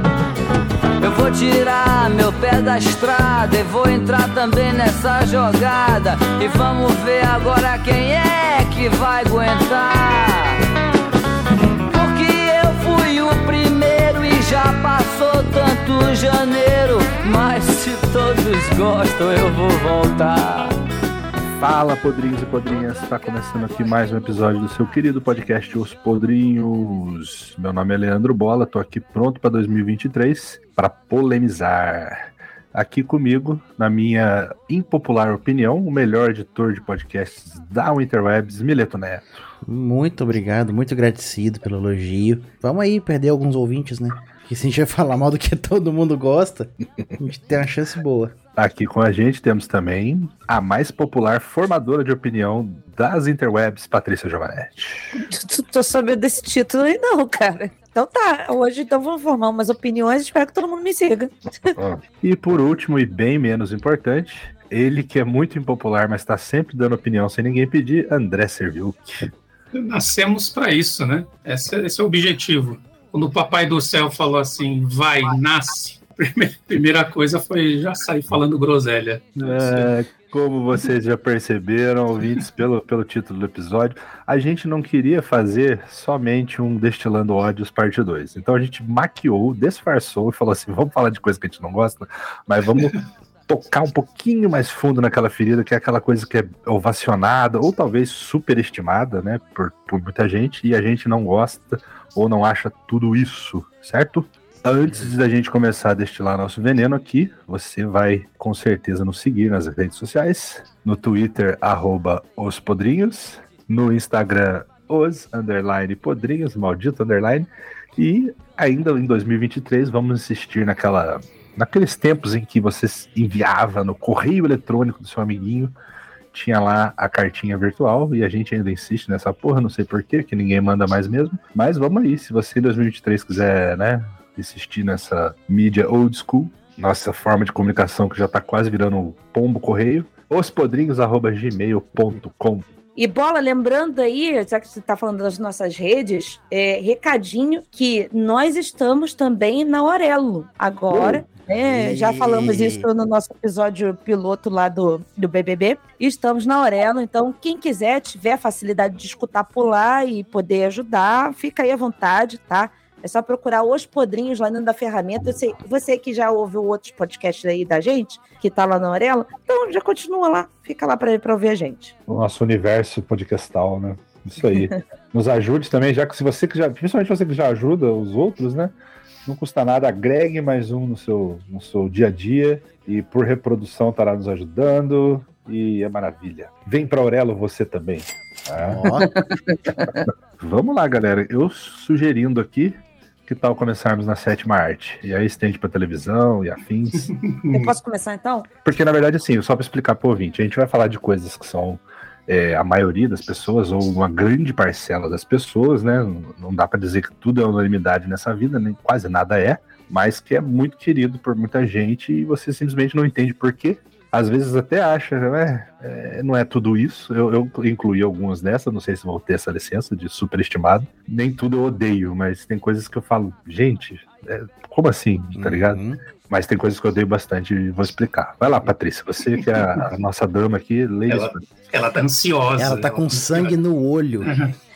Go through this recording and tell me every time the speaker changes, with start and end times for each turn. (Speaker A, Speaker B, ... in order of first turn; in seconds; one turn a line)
Speaker A: 1.0-10.6
Speaker A: 11.9-20.7
Speaker B: 21.6-39.3
Speaker C: 39.7-48.3
Speaker B: 48.6-55.2
Speaker D: 55.1-61.8
Speaker B: 61.7-69.3
Speaker E: 69.8-79.9
Speaker B: 79.4-125.7
Speaker B: 126.3-142.7
Speaker D: 143.0-171.9
Speaker C: 151.4-152.9
Speaker B: 172.1-178.7
Speaker D: 174.5-174.8
Speaker B: 179.3-188.8
Speaker C: 188.7-189.1
Speaker D: 189.0-190.1
Speaker B: 190.4-197.1
Speaker E: 197.1-197.8
Speaker D: 197.5-198.5
Speaker B: 198.7-231.4
Speaker C: 225.4-226.0
Speaker E: 229.4-229.8
Speaker E: 231.1-233.6
Speaker C: 232.6-234.3
Speaker E: 234.2-234.5